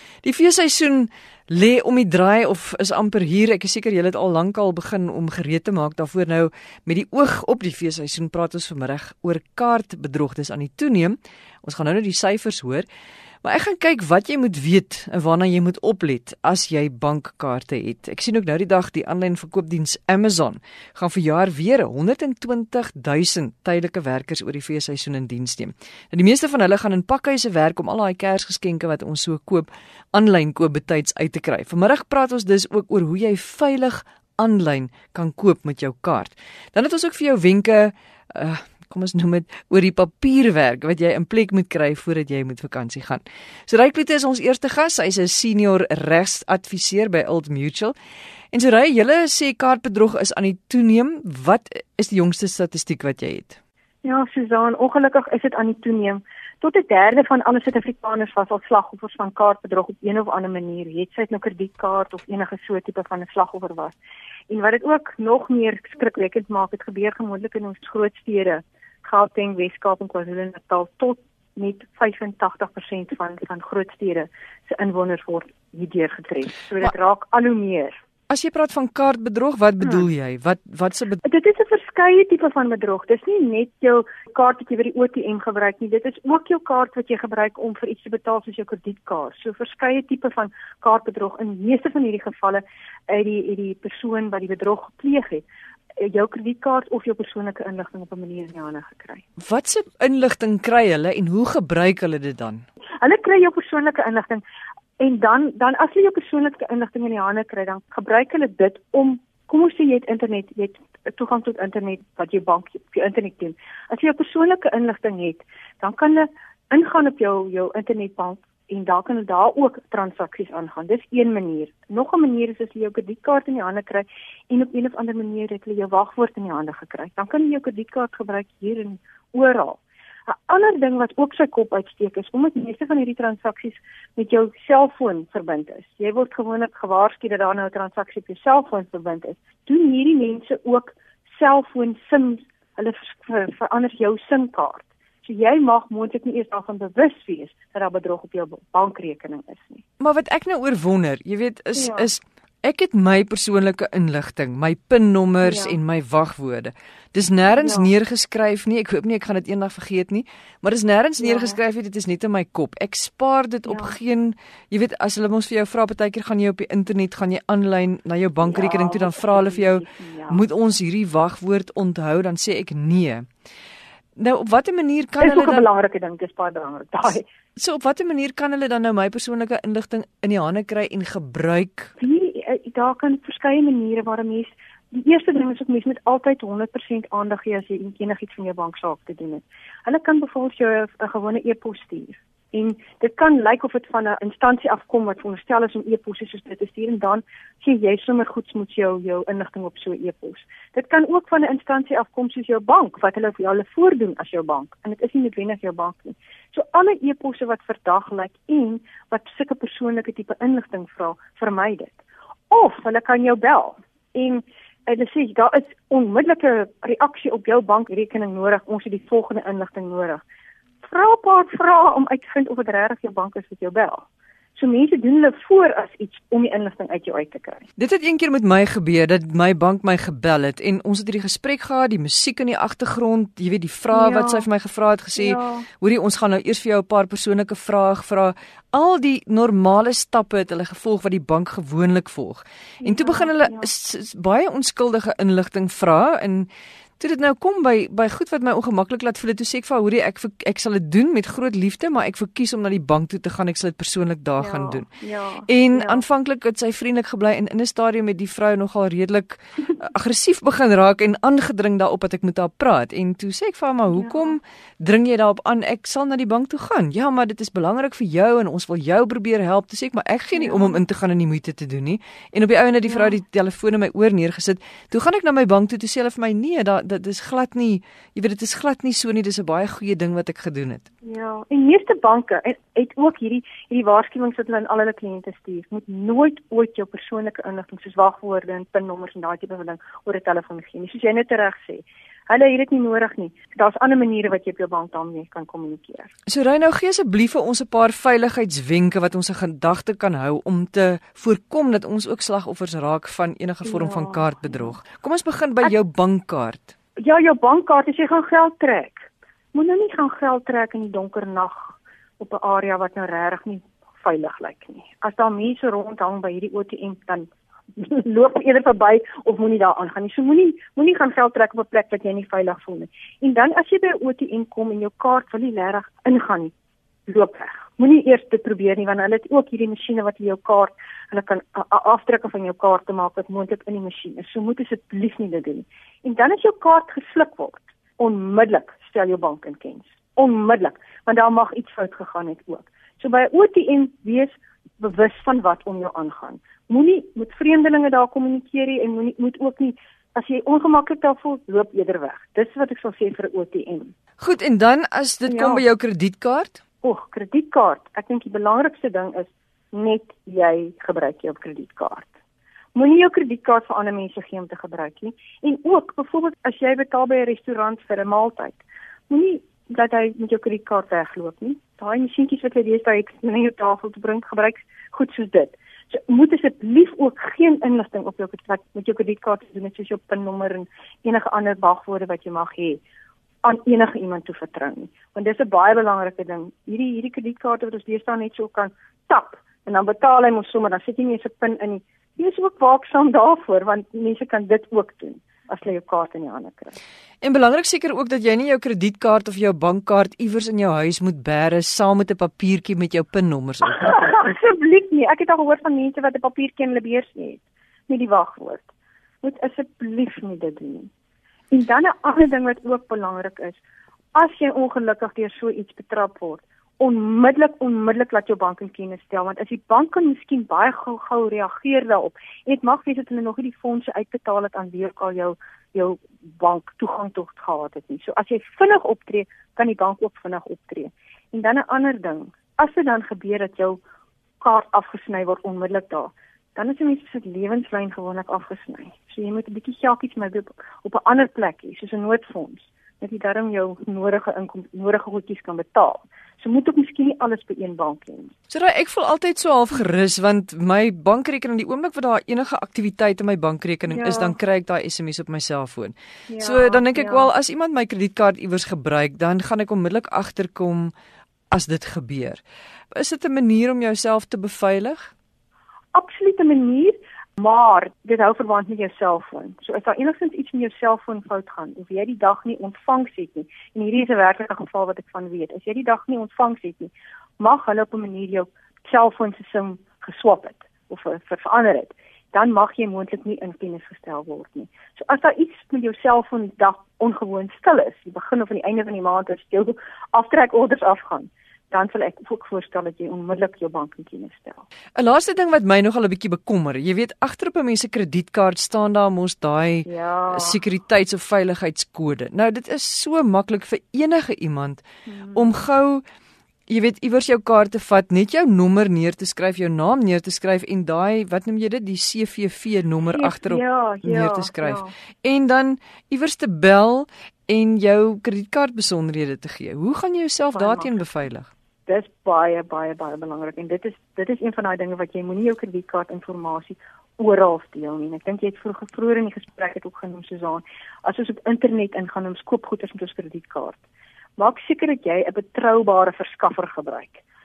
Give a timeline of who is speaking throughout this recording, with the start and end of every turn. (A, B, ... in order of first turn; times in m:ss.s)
0:00.2-0:12.8 A
0:13.4-0:47.9 A
0:48.5-0:53.6 A
0:54.0-1:04.0 B
1:04.5-1:17.9 B
1:18.3-1:21.2 A
1:21.2-1:35.4 B
1:36.0-1:39.2 B
1:39.4-1:42.6 A
1:43.0-1:44.4 B
1:45.0-2:29.8 B
2:30.0-2:53.3 A
2:31.8-2:32.1 B
2:35.4-2:35.8 B
2:37.5-2:37.9 B
2:41.2-2:41.6 B
2:43.7-2:43.9 B
2:48.4-2:50.4 B
2:54.2-2:55.6 A
2:55.2-2:57.2 B
2:57.6-3:01.9 A
3:02.0-3:32.0 B
3:32.5-3:40.2 B
3:40.8-3:44.0 B
3:44.6-3:47.6 B
3:47.8-4:14.9 A
3:53.9-3:54.4 B
3:55.2-3:55.7 B
4:02.8-4:03.7 B
4:14.4-4:16.0 B
4:15.5-4:40.8 A
4:23.9-4:24.4 B
4:30.3-4:30.8 B
4:32.9-4:33.2 B
4:41.0-4:56.1 B
4:56.3-5:06.7 A
5:03.6-5:04.7 B
5:07.0-5:26.5 B
5:27.1-5:53.9 B
5:54.2-5:56.6 A
5:55.3-5:55.6 B
5:56.8-6:02.1 B
6:02.7-6:22.8 B
6:23.4-6:36.8 B
6:37.2-6:44.1 A
6:43.6-6:48.7 B
6:49.2-6:50.9 B
6:51.5-6:53.6 B
6:54.1-7:13.8 B
7:14.4-7:28.3 B
7:28.5-7:40.9 A
7:33.9-7:34.4 B
7:36.3-7:37.3 B
7:41.5-7:42.4 A
7:42.9-7:45.1 A
7:45.9-8:14.6 B
8:15.0-8:26.0 A
8:19.8-8:20.6 B
8:25.1-8:25.5 B
8:26.7-8:41.5 A
8:33.1-8:34.9 B
8:40.5-8:40.9 B
8:41.9-8:53.8 B
8:54.4-8:57.2 B